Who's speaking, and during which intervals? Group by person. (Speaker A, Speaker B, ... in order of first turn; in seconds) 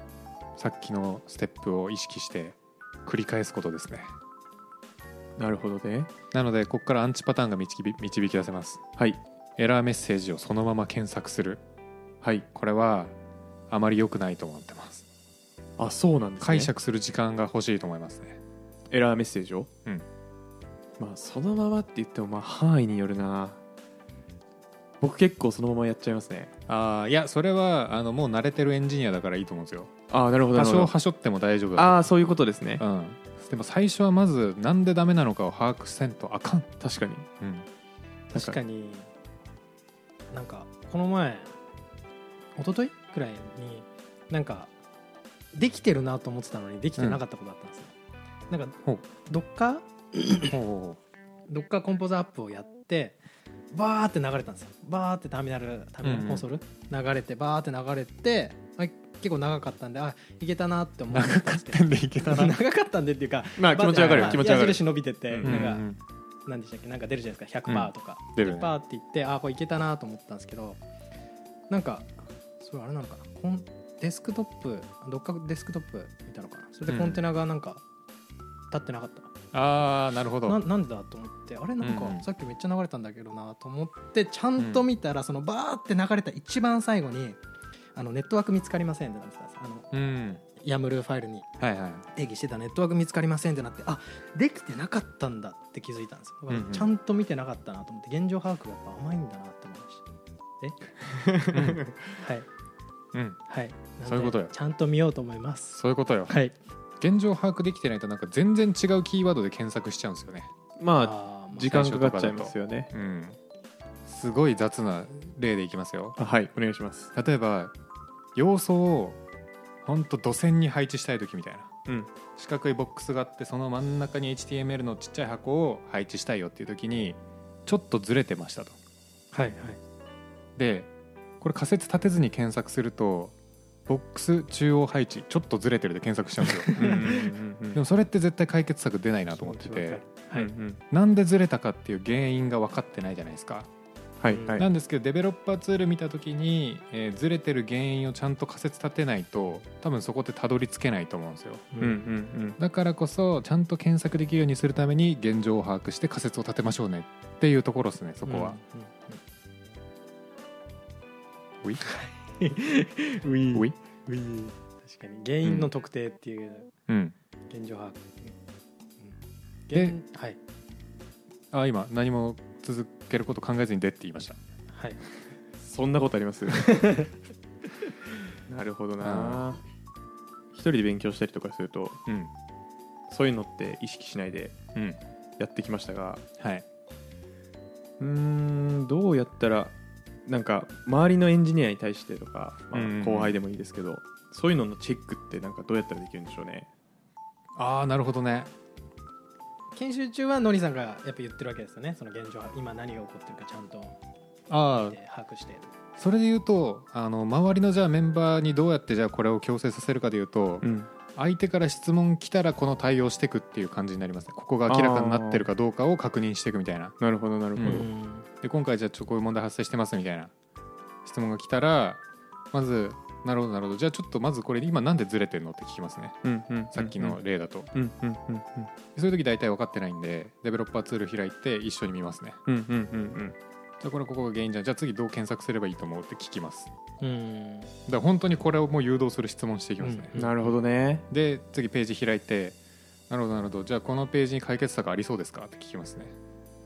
Speaker A: 0.6-4.1, 6.3-8.8, 9.6-11.6, 12.5-13.1, 13.7-15.0, 16.4-18.4, 26.7-29.9, 30.5-32.1, 32.8-36.7, 37.4-37.6, 50.5-51.0, 56.0-56.4, 61.1-62.5, 64.0-64.4, 65.4-66.0, 67.7-68.7, 76.9-77.2, 79.5-80.6, 81.8-82.2, 84.6-84.8, 89.9-90.4, 91.6-92.0, 96.5-96.9, 101.5-101.8, 103.1-103.4, 104.0-104.5, 105.7-106.3, 107.0-110.5, 111.7-113.4, 114.0-116.2, 117.1-117.7, 118.3-119.2, 119.8-121.7, 122.4-128.8, 130.6-130.9, 131.4-133.3, 133.9-137.1, 137.7-140.0, 140.9-143.7, 144.6-151.7, 152.6-158.6, 166.9-167.1, 171.5-174.4, 179.0-179.4, 192.7-193.3, 197.6-198.5, 204.5-205.0, 206.0-216.9, 217.6-217.9, 218.4-220.3, 221.0-222.0, 222.5-226.2, 226.7-227.7, 228.9-232.4, 233.8-236.7, 237.9-240.1, 241.1-242.6, 243.1-246.1
Speaker B: 5.4-6.1, 15.8-16.7, 18.9-19.7, 21.0-23.6, 25.0-26.5, 30.1-30.9, 31.8-32.8, 36.8-37.3, 38.3-38.6, 63.6-65.7, 101.1-102.0, 110.8-112.9, 116.2-117.1, 136.8-137.8, 140.3-140.8, 144.2-144.7, 151.8-152.6, 175.6-177.1, 178.5-179.6, 180.5-182.0, 183.1-184.6, 185.4-186.2, 188.0-189.7, 190.2-196.7, 210.6-210.9, 214.7-215.5, 217.0-217.9, 226.2-227.2, 227.7-228.7, 232.4-233.3, 240.1-241.1
Speaker C: 38.3-39.1, 40.3-41.5, 42.5-44.7, 45.5-47.9, 48.5-50.5, 51.5-53.2, 53.7-65.8, 66.5-70.8, 71.7-77.8, 78.7-79.3, 80.5-87.4, 87.9-89.9, 90.6-91.5, 92.1-100.1, 102.2-102.5, 103.5-106.5, 111.0-111.7, 129.3-129.8, 136.7-137.3, 139.4-140.5, 144.3-144.6, 151.7-152.0, 158.2-159.2, 161.8-166.7, 167.5-168.3, 169.7-170.4, 174.7-175.0, 176.5-177.1, 199.7-203.9, 204.7-205.7, 217.6-218.3, 237.0-237.7, 239.8-240.3